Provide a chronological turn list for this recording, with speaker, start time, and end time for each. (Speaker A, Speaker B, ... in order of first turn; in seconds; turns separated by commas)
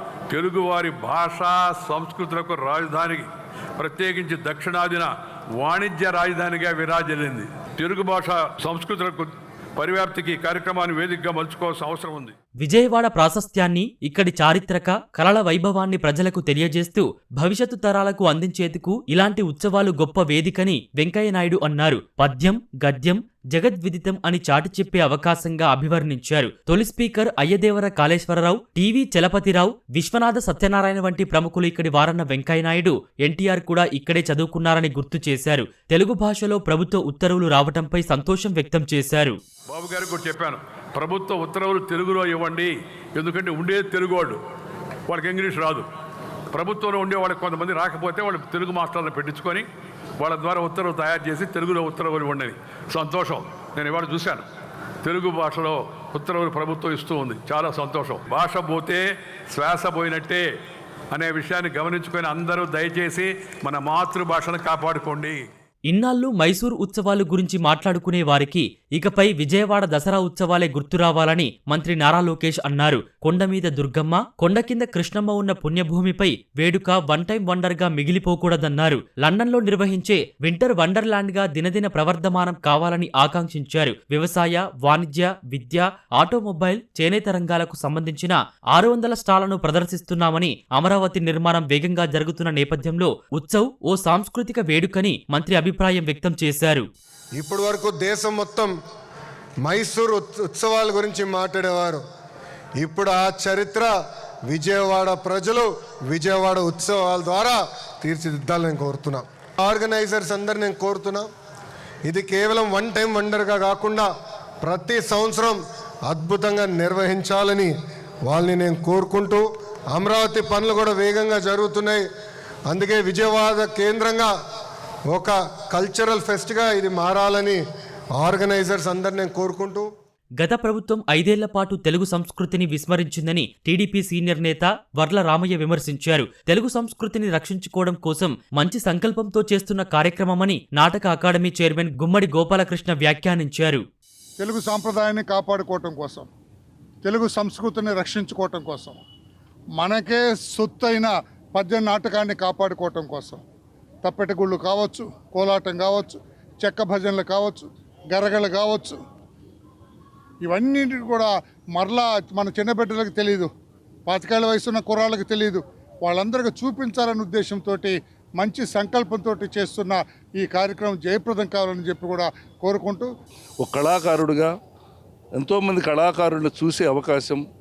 Speaker A: 0.3-12.3, Speaker B: 12.6-39.4, Speaker A: 39.7-44.4, Speaker A: 45.1-45.9, Speaker A: 46.5-49.7, Speaker A: 50.2-54.4, Speaker A: 55.0-60.4, Speaker A: 61.1-65.4, Speaker B: 65.9-96.8, Speaker C: 97.4-98.7, Speaker C: 99.6-102.0, Speaker C: 102.8-103.9, Speaker C: 104.5-111.3, Speaker C: 112.0-114.1, Speaker C: 114.6-117.7, Speaker C: 118.2-122.0, Speaker C: 122.7-124.3, Speaker C: 125.1-127.6, Speaker C: 128.2-129.9, Speaker B: 130.4-143.8, Speaker D: 144.4-146.3, Speaker D: 147.0-149.0, Speaker D: 149.8-153.4, Speaker D: 154.0-159.0, Speaker D: 160.4-163.5, Speaker D: 164.1-173.1, Speaker E: 173.6-174.5, Speaker E: 175.3-177.4